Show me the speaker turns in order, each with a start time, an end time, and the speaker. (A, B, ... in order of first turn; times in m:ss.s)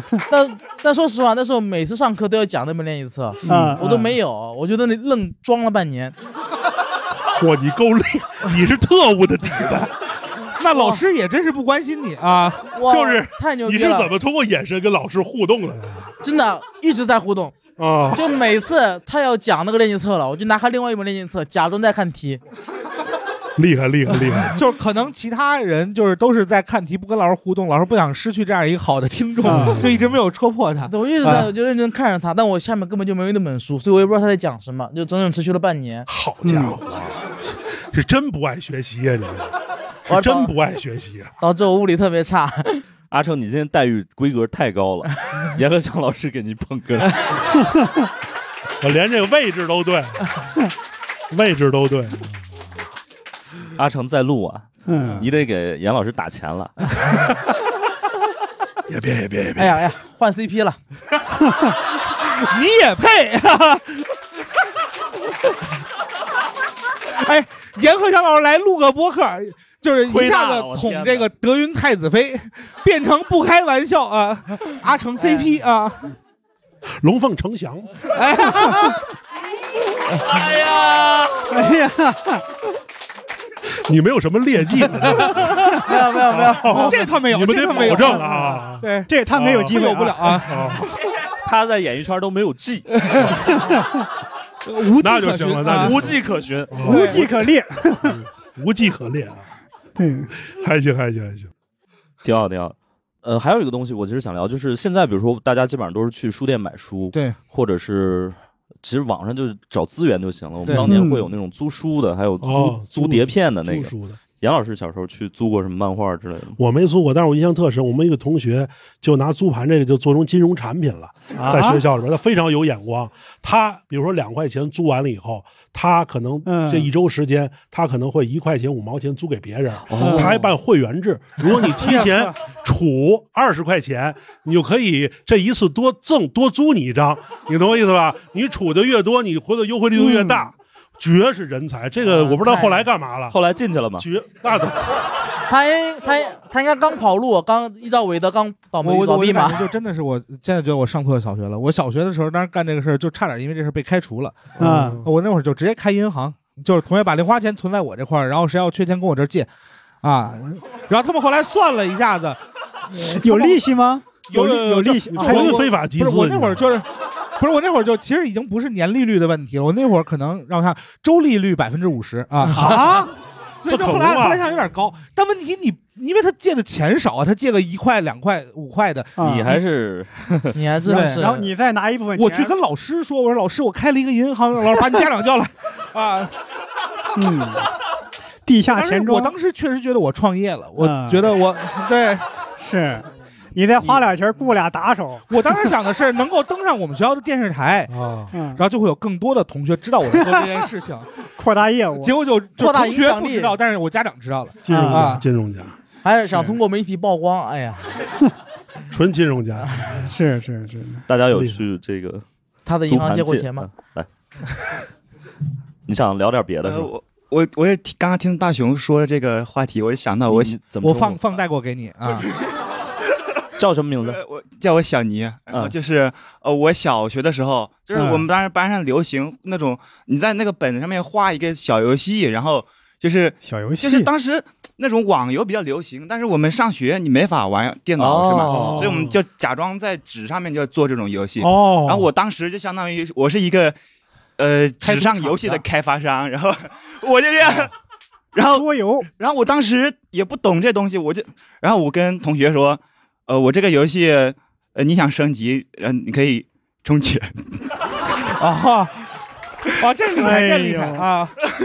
0:00.3-0:06.1 A
0:03.4-0:03.8 B
0:03.4-0:04.1 C
0:07.4-0:10.0 B
0:10.6-0:12.8 D
0:10.7-0:11.0 A
0:12.7-0:14.1 A
0:12.8-0:16.2 B
0:16.2-0:17.6 A
0:17.8-0:18.2 B
0:18.1-0:22.4 A
0:23.6-0:24.6 B
0:24.5-0:31.5 D
0:29.4-0:29.8 C
0:29.4-0:30.1 B
0:30.9-0:36.1 A
0:36.1-0:39.5 B
0:36.4-0:36.8 C
0:40.1-0:40.5 A
0:40.1-0:41.3 B
0:41.4-0:42.8 A
0:43.1-0:47.4 E
0:48.8-0:50.3 B
0:51.3-0:52.4 B
0:53.8-0:57.2 E
0:54.9-0:55.3 C
0:58.9-0:59.8 B
0:59.6-1:00.8 A
1:02.2-1:04.1 D
1:07.0-1:16.2 D
1:10.1-1:11.3 E
1:17.0-1:18.0 B
1:18.1-1:19.0 D
1:20.2-1:21.5 E
1:21.5-1:22.4 C
1:23.9-1:30.9 B
1:25.7-1:27.0 A
1:26.7-1:30.8 D
1:28.2-1:30.4 C
1:31.4-1:33.6 E
1:34.6-1:36.2 D
1:35.0-1:37.3 B
1:35.6-1:37.2 E
1:36.8-1:37.3 D
1:36.8-1:38.2 C
1:38.0-1:39.5 B
1:40.0-1:40.3 C
1:40.4-1:41.5 B
1:42.2-1:56.6 E
1:50.6-1:51.0 D
1:50.7-1:51.3 C
1:52.4-1:54.2 B
1:56.6-2:23.4 B
2:01.3-2:01.8 C
2:06.4-2:06.9 C
2:09.9-2:10.5 E
2:10.0-2:10.4 C
2:11.8-2:12.4 C
2:20.0-2:20.5 C
2:22.0-2:22.9 A
2:23.3-2:24.1 E
2:24.0-2:25.0 B
2:25.5-2:29.6 A
2:28.8-2:39.5 D
2:34.6-2:35.1 B
2:34.6-2:35.0 C
2:40.0-2:43.7 D
2:43.1-2:45.6 C
2:44.3-2:46.6 B
2:44.3-2:53.1 D
2:52.5-2:53.1 C
2:52.5-2:53.1 B
2:53.6-2:59.6 D
2:53.7-2:54.4 B
2:59.2-2:59.4 C
2:59.2-3:00.5 E
3:00.5-3:01.5 A
3:00.9-3:01.2 D
3:00.9-3:02.5 C
3:02.2-3:06.4 D
3:07.1-3:07.7 C
3:08.4-3:09.3 C
3:08.7-3:12.2 D
3:10.8-3:11.3 C
3:12.6-3:15.7 C
3:15.3-3:21.1 D
3:17.9-3:18.3 B
3:18.3-3:18.6 C
3:21.4-3:22.1 C
3:22.0-3:25.2 D
3:22.6-3:23.5 A
3:24.6-3:25.8 B
3:24.7-3:25.2 C
3:26.0-3:27.9 A
3:28.9-3:30.1 B
3:30.1-3:31.0 C
3:31.1-3:32.2 E
3:31.3-3:31.6 B
3:32.6-3:33.7 A
3:32.8-3:34.7 E
3:35.9-3:36.9 E
3:36.6-3:40.6 F
3:40.3-3:41.2 E
3:40.8-3:42.3 D
3:43.6-3:44.2 E
3:44.0-4:03.8 F
3:47.9-3:48.2 C
3:53.4-3:54.1 C
3:58.0-3:59.0 E
3:58.4-3:59.2 B
4:01.4-4:02.1 B
4:04.4-4:07.7 F
4:04.8-4:05.6 B
4:08.3-4:17.4 F
4:08.5-4:09.1 C
4:18.3-4:19.1 D
4:19.7-4:21.4 D
4:20.2-4:21.1 C